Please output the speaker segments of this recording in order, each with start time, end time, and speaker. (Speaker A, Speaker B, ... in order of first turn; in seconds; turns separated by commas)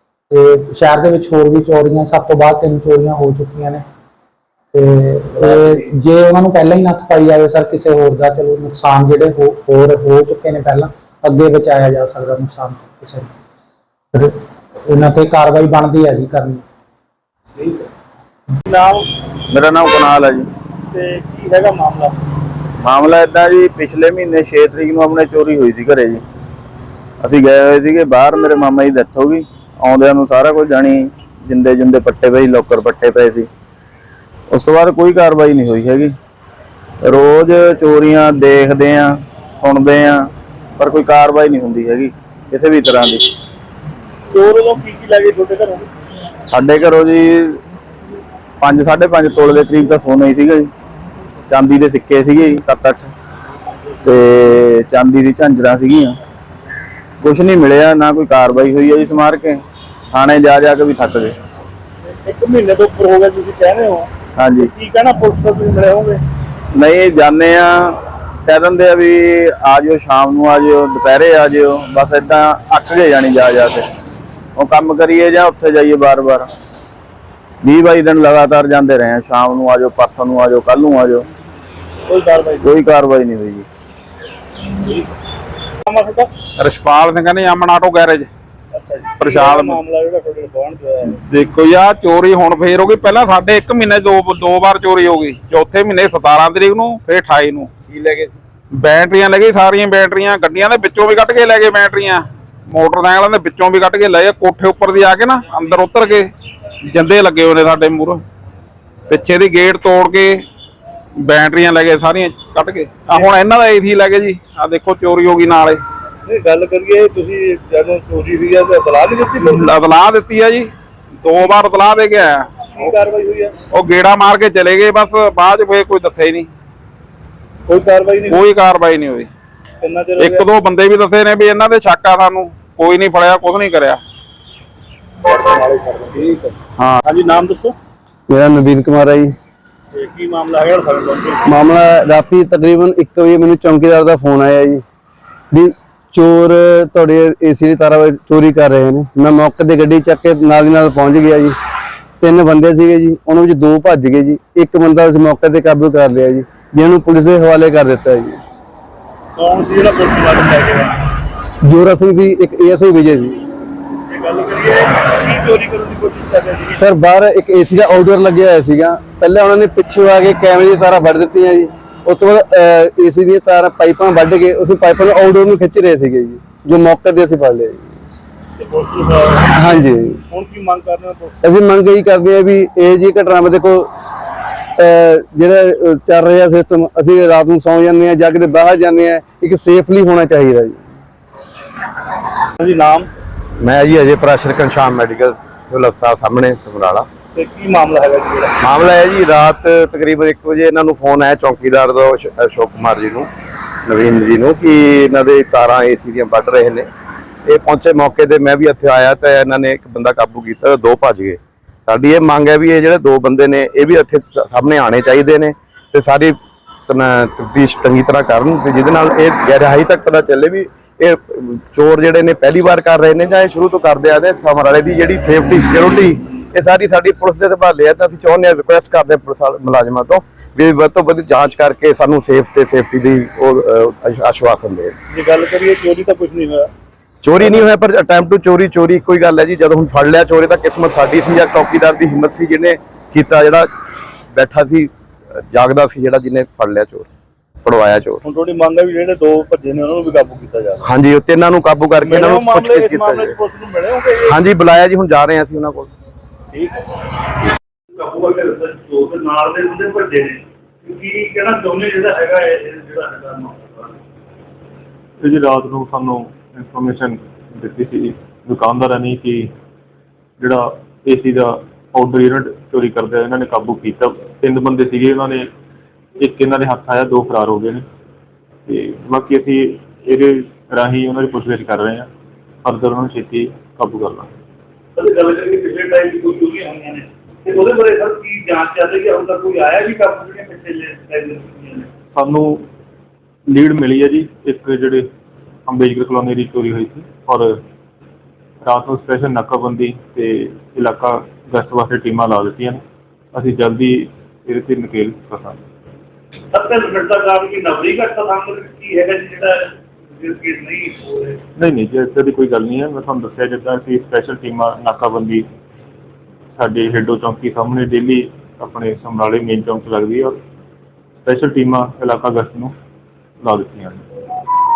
Speaker A: 0.3-3.8, Speaker A: 4.7-13.3, Speaker B: 5.4-5.8, Speaker A: 14.8-16.6, Speaker B: 18.6-19.1, Speaker C: 19.5-20.5, Speaker B: 20.9-22.2, Speaker C: 22.8-26.2, Speaker C: 27.2-33.5, Speaker C: 34.5-36.1, Speaker C: 37.0-43.3, Speaker B: 44.3-45.9, Speaker C: 46.5-47.6, Speaker C: 48.6-50.7, Speaker C: 51.5-53.1, Speaker C: 54.0-56.2, Speaker C: 57.2-59.6, Speaker C: 60.1-61.3, Speaker B: 62.1-64.1, Speaker C: 64.4-64.7, Speaker B: 64.6-66.2, Speaker C: 66.7-73.8, Speaker C: 74.5-76.5, Speaker C: 77.6-81.2, Speaker B: 82.1-82.8, Speaker C: 82.6-83.7, Speaker B: 85.8-86.3, Speaker D: 86.6-88.3, Speaker B: 88.7-91.2, Speaker D: 89.2-89.7, Speaker D: 91.3-97.7, Speaker D: 98.7-106.3, Speaker D: 106.9-108.2, Speaker D: 109.1-110.4, Speaker D: 111.2-115.8, Speaker B: 113.1-113.3, Speaker B: 116.2-119.6, Speaker D: 119.5-122.5, Speaker B: 122.7-123.5, Speaker D: 123.7-126.5, Speaker B: 127.7-128.6, Speaker D: 128.3-129.3, Speaker B: 129.8-130.5, Speaker D: 130.2-134.0, Speaker B: 135.3-136.5, Speaker B: 137.0-137.8, Speaker E: 138.3-139.3, Speaker B: 139.9-141.5, Speaker E: 141.5-144.8, Speaker E: 145.5-151.5, Speaker E: 152.2-158.3, Speaker B: 159.3-160.9, Speaker E: 161.7-163.3, Speaker B: 164.1-166.8, Speaker E: 166.8-177.8, Speaker B: 178.6-181.4, Speaker E: 179.6-180.1, Speaker E: 181.4-183.8, Speaker E: 184.8-190.7, Speaker B: 192.6-193.1, Speaker F: 193.6-197.1, Speaker B: 197.3-198.5, Speaker F: 198.6-203.3, Speaker F: 203.8-206.9, Speaker F: 207.4-216.3, Speaker F: 216.9-234.9, Speaker B: 235.1-236.7, Speaker F: 237.2-243.7, Speaker F: 244.3-244.9, Speaker F: 245.5-247.1, Speaker F: 247.6-248.2, Speaker B: 248.2-250.8, Speaker F: 250.8-253.3, Speaker B: 252.0-254.4, Speaker F: 254.2-255.9, Speaker B: 256.5-256.8, Speaker B: 257.9-263.9, Speaker G: 265.2-269.5, Speaker G: 270.4-275.5, Speaker G: 276.2-277.8, Speaker G: 278.7-282.1, Speaker G: 282.6-284.3, Speaker B: 285.0-291.9, Speaker G: 292.1-292.6, Speaker G: 293.5-295.1, Speaker G: 295.7-297.6, Speaker G: 298.6-302.8, Speaker G: 303.3-305.6, Speaker B: 306.5-311.4, Speaker G: 311.6-315.5, Speaker G: 316.6-320.4, Speaker G: 321.2-322.7, Speaker G: 323.4-324.0